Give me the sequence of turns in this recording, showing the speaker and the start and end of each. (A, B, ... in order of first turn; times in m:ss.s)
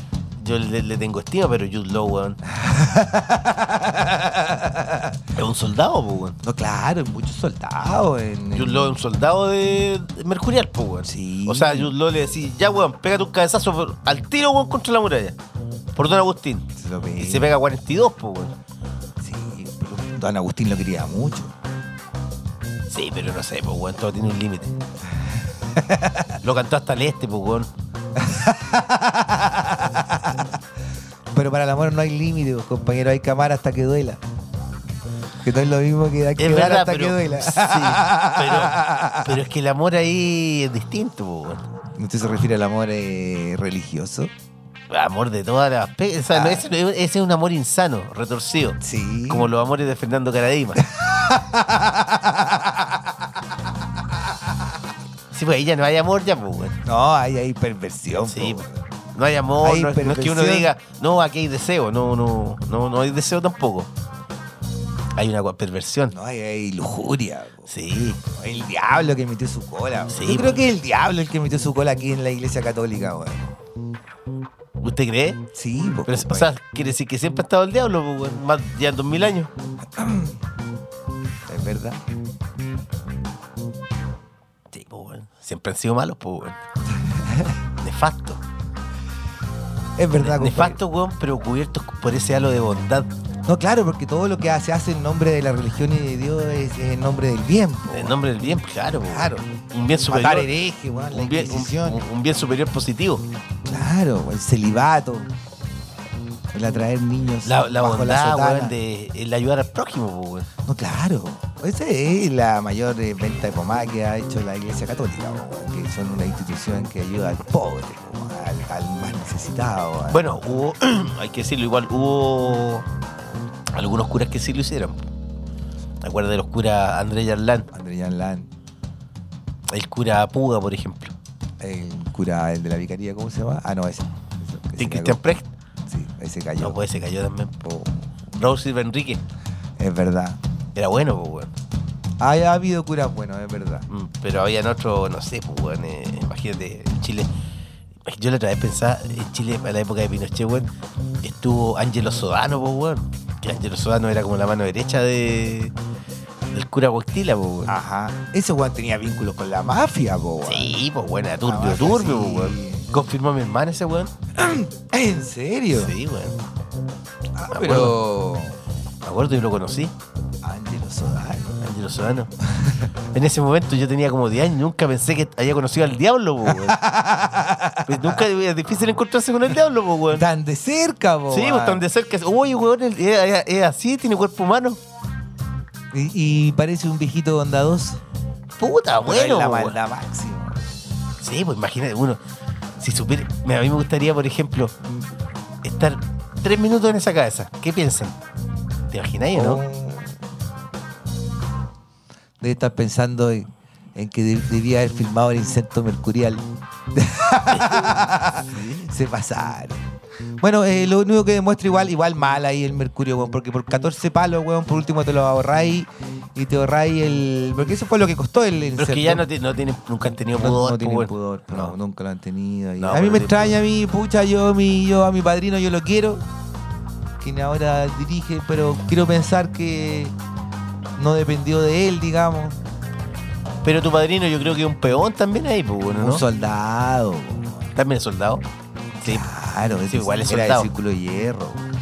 0:00.4-0:02.4 A
0:02.5-0:05.2 B
0:05.3-0:06.4 A
0:06.4-0:09.0 B
0:08.5-0:15.4 A
0:11.0-0:11.9 B
0:15.9-0:16.7 A
0:16.7-0:17.5 B
0:17.2-0:18.5 A
0:19.2-0:21.5 B
0:22.9-0:24.7 A
0:25.7-0:26.3 B
0:26.4-0:27.7 A
0:28.2-0:30.5 B
0:31.3-0:34.2 B
0:35.4-0:39.4 B
0:36.4-0:41.6 A
0:41.9-0:44.3 B
0:44.9-0:48.8 A
0:46.3-0:46.7 B
0:48.8-0:49.5 B
0:49.3-0:50.8 A
0:50.8-0:53.1 B
0:55.3-0:56.8 A
0:56.8-0:58.9 B
0:58.2-1:03.9 A
0:59.6-1:00.7 B
1:05.2-1:06.1 A
1:06.1-1:07.7 B
1:07.7-1:08.2 A
1:08.2-1:13.5 B
1:10.1-1:10.6 A
1:14.8-1:15.4 A
1:15.5-1:16.5 B
1:16.1-1:19.5 A
1:20.0-1:20.4 B
1:21.4-1:22.0 B
1:24.7-1:26.6 A
1:26.9-1:27.6 B
1:27.8-1:28.4 A
1:30.0-1:30.8 B
1:30.2-1:33.1 A
1:33.4-1:38.2 B
1:37.9-1:40.5 A
1:39.0-1:39.4 B
1:40.1-1:42.0 B
1:41.1-1:43.2 A
1:43.6-1:45.3 B
1:46.5-1:48.7 B
1:47.4-1:50.5 A
1:50.6-2:00.4 B
2:00.1-2:02.8 A
2:03.7-2:05.0 A
2:06.0-2:07.7 A
2:07.7-2:08.5 B
2:09.7-2:11.1 A
2:11.6-2:15.4 B
2:14.8-2:15.5 A
2:15.9-2:16.8 B
2:16.6-2:17.5 A
2:17.6-2:18.1 B
2:18.3-2:19.2 A
2:19.8-2:20.4 B
2:20.7-2:21.5 A
2:22.2-2:23.8 B
2:23.9-2:27.3 A
2:28.0-2:30.7 A
2:31.2-2:35.7 A
2:36.5-2:37.7 A
2:37.6-2:40.8 B
2:40.4-2:44.1 A
2:41.4-2:42.9 B
2:44.3-2:45.9 B
2:45.7-2:46.4 A
2:47.3-2:48.6 B
2:47.5-2:48.0 A
2:49.0-2:49.9 A
2:50.4-2:51.6 B
2:51.6-2:52.3 A
2:52.4-2:52.8 B
2:53.1-2:56.8 A
2:56.5-2:58.2 B
2:57.8-3:00.2 A
3:00.1-3:01.8 B
3:01.3-3:04.8 A
3:05.9-3:08.0 B
3:08.6-3:09.8 A
3:09.0-3:10.6 B
3:11.2-3:12.2 A
3:12.8-3:14.7 A
3:15.6-3:18.2 A
3:18.9-3:19.6 A
3:19.3-3:20.2 B
3:22.4-3:29.8 B
3:27.5-3:28.9 A
3:30.4-3:39.2 B
3:38.8-3:41.7 A
3:40.3-3:46.2 B
3:42.8-3:43.5 A
3:47.2-3:50.1 B
3:50.9-3:52.6 B
3:53.6-3:56.2 A
3:56.0-3:57.7 B
3:57.8-3:58.4 A
3:59.0-3:59.3 A
3:59.0-4:01.6 B
3:59.9-4:00.7 A